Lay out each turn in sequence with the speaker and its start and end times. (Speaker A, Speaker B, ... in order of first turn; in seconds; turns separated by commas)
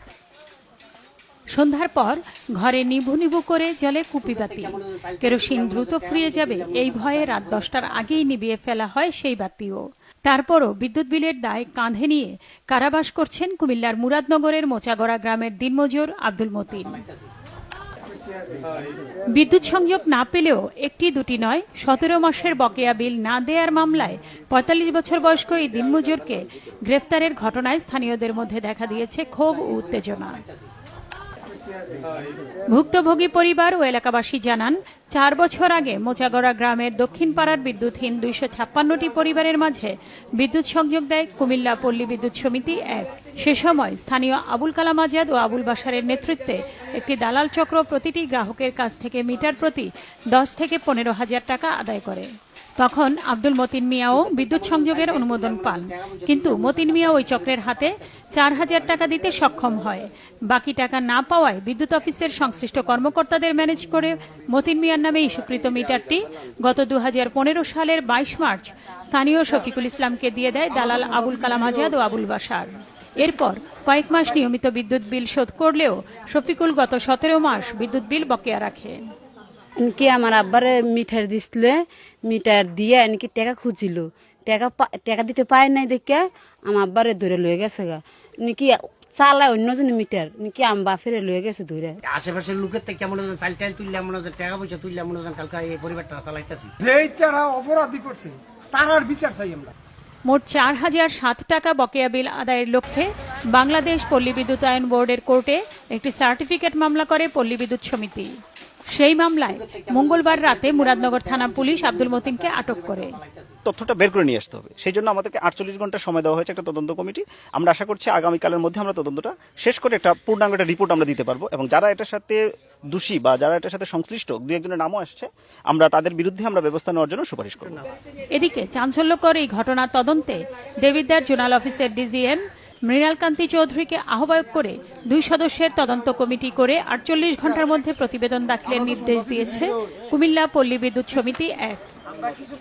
Speaker A: 1.5-17.0, Speaker B: 4.7-6.5, Speaker A: 19.3-30.4, Speaker A: 32.7-79.0, Speaker C: 79.8-92.0, Speaker B: 92.1-96.7, Speaker D: 96.8-99.7, Speaker A: 100.2-108.3, Speaker A: 108.9-113.2, Speaker E: 113.7-122.4, Speaker E: 122.9-127.8, Speaker A: 128.3-141.9